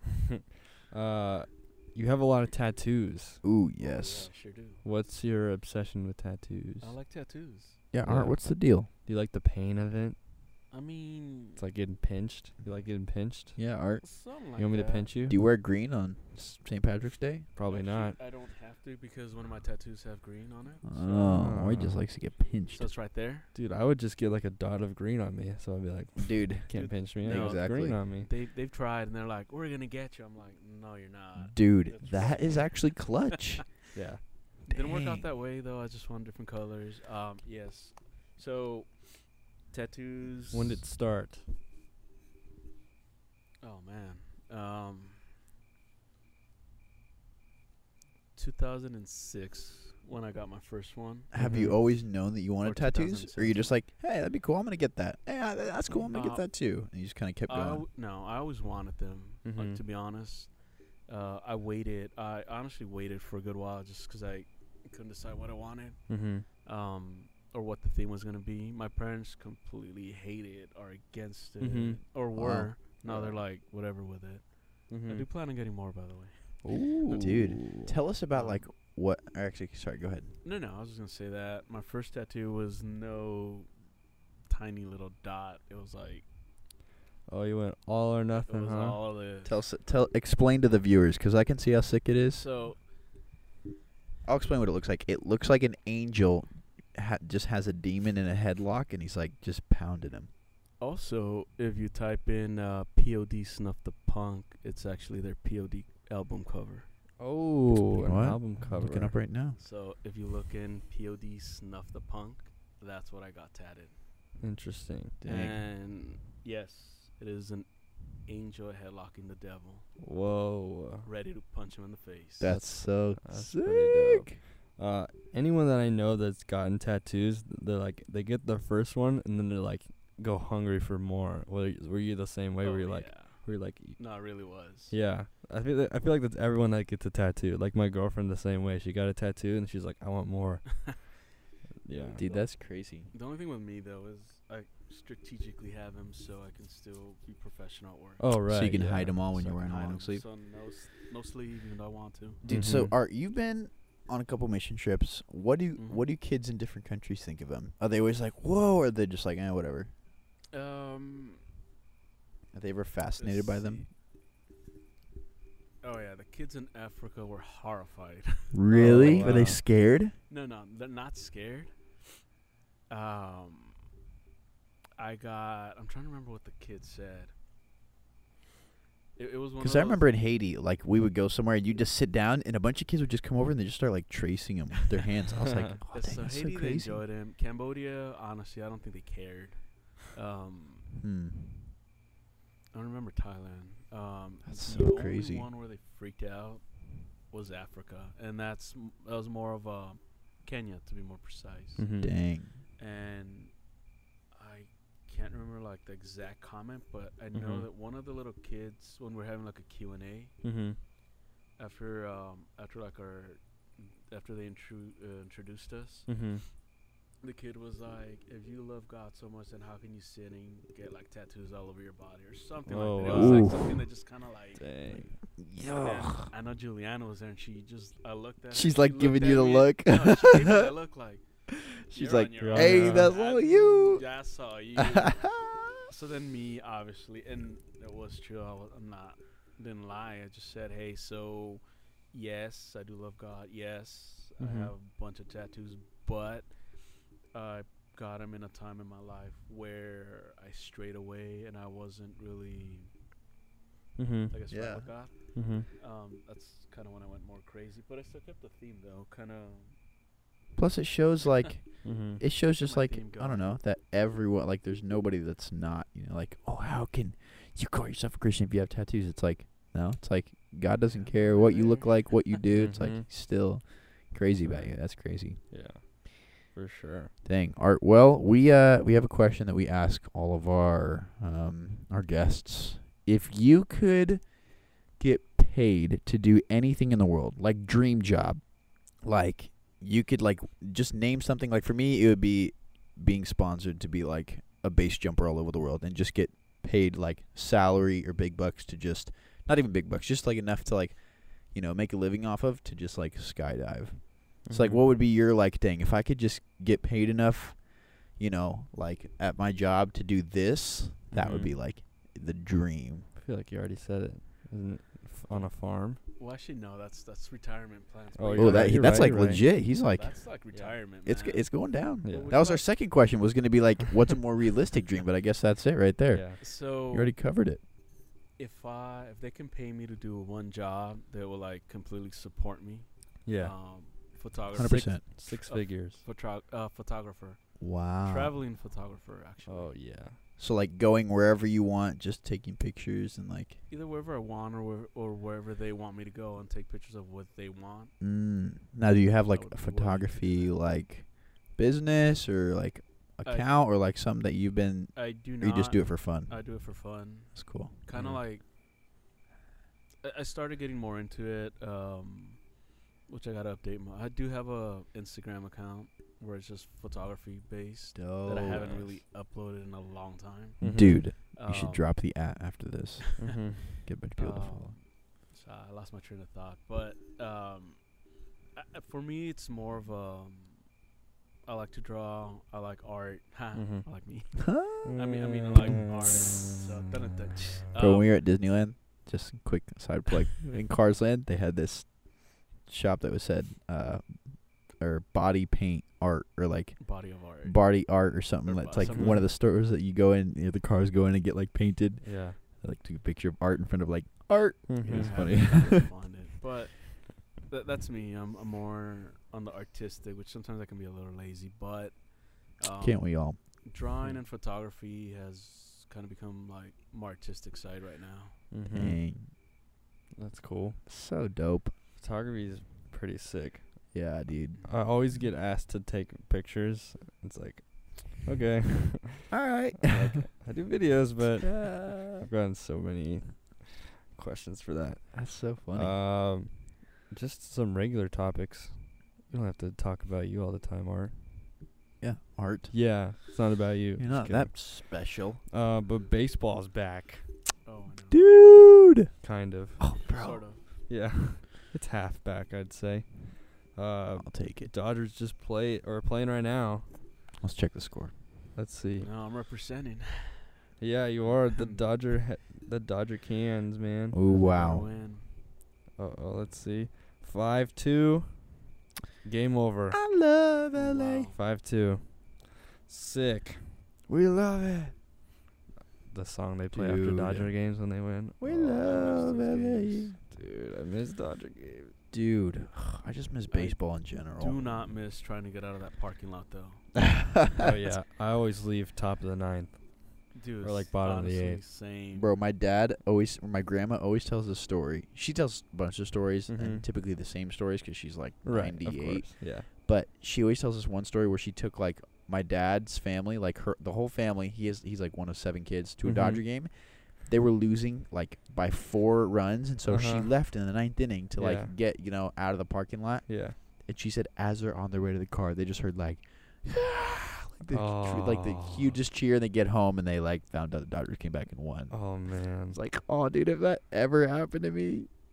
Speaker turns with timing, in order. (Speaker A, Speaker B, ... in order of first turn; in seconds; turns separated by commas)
Speaker A: 0.9-3.4, Speaker B: 3.4-4.3, Speaker C: 3.8-4.8, Speaker A: 4.8-6.9, Speaker C: 6.8-7.8, Speaker B: 7.9-8.9, Speaker A: 8.0-10.2, Speaker C: 10.7-11.6, Speaker A: 11.6-13.6, Speaker B: 13.6-14.0, Speaker C: 14.0-15.1, Speaker A: 14.6-15.3, Speaker B: 15.3-17.5, Speaker A: 17.6-18.2, Speaker C: 17.6-21.5, Speaker B: 20.8-22.9, Speaker A: 21.3-22.0, Speaker C: 22.7-23.5, Speaker A: 23.5-28.3, Speaker B: 26.2-28.0, Speaker C: 26.7-33.1, Speaker B: 31.4-33.7, Speaker A: 33.9-34.2, Speaker B: 34.6-35.2, Speaker C: 34.7-40.8, Speaker A: 40.5-41.5, Speaker C: 43.6-45.3, Speaker C: 48.3-51.8, Speaker B: 51.3-57.8, Speaker A: 51.3-51.8, Speaker C: 52.6-53.7, Speaker C: 56.1-56.5, Speaker C: 57.5-60.5, Speaker A: 59.4-59.8, Speaker C: 61.1-76.6, Speaker A: 66.1-66.5, Speaker A: 71.6-72.0, Speaker B: 72.3-73.3, Speaker A: 74.9-75.2, Speaker B: 76.7-80.3, Speaker A: 76.7-77.9, Speaker C: 78.3-78.6, Speaker C: 80.4-83.7, Speaker C: 84.5-86.2, Speaker A: 87.3-89.0, Speaker C: 88.4-89.5, Speaker B: 89.4-92.4, Speaker C: 92.3-92.8, Speaker B: 94.2-100.3, Speaker C: 100.8-106.9, Speaker A: 107.2-109.2, Speaker B: 107.7-109.6, Speaker C: 109.6-114.0, Speaker A: 114.4-115.2, Speaker B: 115.2-115.6, Speaker C: 115.2-119.8, Speaker A: 120.0-121.1, Speaker C: 121.0-122.6, Speaker B: 122.4-124.4, Speaker A: 122.4-134.0, Speaker C: 132.6-135.0, Speaker A: 134.9-141.2, Speaker A: 141.8-142.2, Speaker C: 141.9-142.5, Speaker B: 142.2-143.1, Speaker C: 143.1-148.2, Speaker A: 148.2-149.1, Speaker B: 148.5-150.2, Speaker C: 149.3-152.4, Speaker B: 152.4-159.9, Speaker A: 152.5-152.9, Speaker C: 155.8-156.0, Speaker C: 160.5-161.4, Speaker B: 162.5-163.8, Speaker C: 163.2-163.9, Speaker C: 165.8-169.4, Speaker B: 168.5-170.1, Speaker A: 168.7-169.6, Speaker C: 170.3-171.7, Speaker C: 172.9-173.8, Speaker C: 175.0-177.3, Speaker C: 179.2-180.1, Speaker B: 179.6-187.0, Speaker C: 185.9-190.9, Speaker B: 190.9-191.7, Speaker C: 192.7-201.8, Speaker B: 194.4-195.5, Speaker A: 201.8-202.1, Speaker B: 202.0-202.6, Speaker C: 202.8-203.5, Speaker C: 204.3-210.3, Speaker A: 207.3-207.7, Speaker A: 210.4-210.8, Speaker C: 211.6-216.1, Speaker A: 216.1-216.4, Speaker C: 217.2-225.1, Speaker A: 222.7-223.7, Speaker B: 223.1-223.7, Speaker A: 224.6-225.1, Speaker B: 225.4-226.3, Speaker C: 225.8-231.2, Speaker B: 228.5-230.7, Speaker B: 231.8-234.0, Speaker C: 231.9-235.2, Speaker A: 232.4-233.1, Speaker B: 234.8-235.9, Speaker C: 235.8-246.5, Speaker A: 244.4-244.7, Speaker C: 247.3-252.9, Speaker A: 254.0-254.3, Speaker C: 254.3-259.7, Speaker B: 254.5-254.9, Speaker A: 255.3-255.7, Speaker B: 260.6-275.4, Speaker A: 261.8-262.2, Speaker C: 262.6-263.5, Speaker C: 270.9-272.2, Speaker A: 272.5-273.1, Speaker C: 274.4-274.7, Speaker A: 275.5-277.1, Speaker B: 277.2-313.1, Speaker A: 304.4-304.8, Speaker A: 311.1-311.5, Speaker A: 313.2-316.0, Speaker C: 316.1-322.6, Speaker A: 318.2-319.5, Speaker B: 318.4-320.3, Speaker B: 321.0-327.6, Speaker A: 322.0-322.3, Speaker A: 326.1-326.4, Speaker C: 326.4-327.1, Speaker C: 328.4-339.7, Speaker A: 333.2-333.6, Speaker B: 334.5-335.0, Speaker A: 334.6-336.0, Speaker B: 337.6-338.3, Speaker A: 339.5-340.2, Speaker B: 340.4-343.6, Speaker C: 343.7-347.9, Speaker B: 348.0-356.4, Speaker C: 349.2-350.6, Speaker C: 353.2-353.5, Speaker C: 354.9-358.4, Speaker B: 357.3-357.7, Speaker A: 357.9-358.2, Speaker C: 360.0-362.4, Speaker C: 363.1-370.7, Speaker B: 367.9-368.7, Speaker A: 368.6-368.9, Speaker A: 370.6-371.1, Speaker B: 370.6-374.7, Speaker C: 371.3-371.9, Speaker A: 373.2-373.7, Speaker C: 373.2-373.5, Speaker C: 374.2-377.9, Speaker C: 378.5-380.6, Speaker C: 381.4-388.2, Speaker A: 383.5-383.9, Speaker B: 384.4-384.9, Speaker A: 384.9-386.7, Speaker B: 387.7-405.9, Speaker C: 396.8-399.2, Speaker A: 398.9-399.2, Speaker A: 402.0-402.4, Speaker A: 404.7-405.4, Speaker C: 404.8-418.4, Speaker B: 412.8-413.4, Speaker A: 418.5-419.0, Speaker B: 418.7-419.3, Speaker A: 420.1-420.8, Speaker B: 420.9-421.7, Speaker A: 422.0-423.9, Speaker B: 423.9-424.6, Speaker A: 424.6-441.1, Speaker B: 429.3-430.3, Speaker B: 431.4-432.3, Speaker B: 435.1-435.9, Speaker B: 442.0-442.7, Speaker A: 442.7-444.8, Speaker B: 444.0-445.4, Speaker A: 445.5-447.3, Speaker C: 447.6-448.3, Speaker B: 448.1-449.1, Speaker A: 449.2-449.9, Speaker B: 449.8-450.4, Speaker C: 450.1-450.6, Speaker A: 450.9-456.9, Speaker B: 454.2-454.7, Speaker B: 457.4-458.1, Speaker A: 458.5-459.1, Speaker C: 459.0-460.5, Speaker A: 460.8-464.2, Speaker C: 461.2-461.8, Speaker B: 464.1-464.9, Speaker C: 464.3-465.3, Speaker A: 466.0-468.6, Speaker A: 469.2-470.0, Speaker B: 469.9-471.3, Speaker C: 470.7-471.4, Speaker A: 471.3-473.7, Speaker B: 474.1-474.9, Speaker A: 476.1-479.2, Speaker B: 476.7-477.5, Speaker B: 478.4-480.1, Speaker C: 478.8-480.1, Speaker A: 480.2-481.9, Speaker B: 482.1-484.6, Speaker C: 483.5-483.8, Speaker C: 484.4-486.9, Speaker B: 486.9-487.7, Speaker A: 487.6-491.6, Speaker C: 490.3-492.3, Speaker B: 492.1-525.1, Speaker A: 496.5-496.8, Speaker A: 498.4-499.7, Speaker A: 506.0-506.4, Speaker A: 509.9-510.3, Speaker A: 511.4-511.7, Speaker A: 513.3-513.6, Speaker A: 517.7-519.0, Speaker A: 521.9-522.8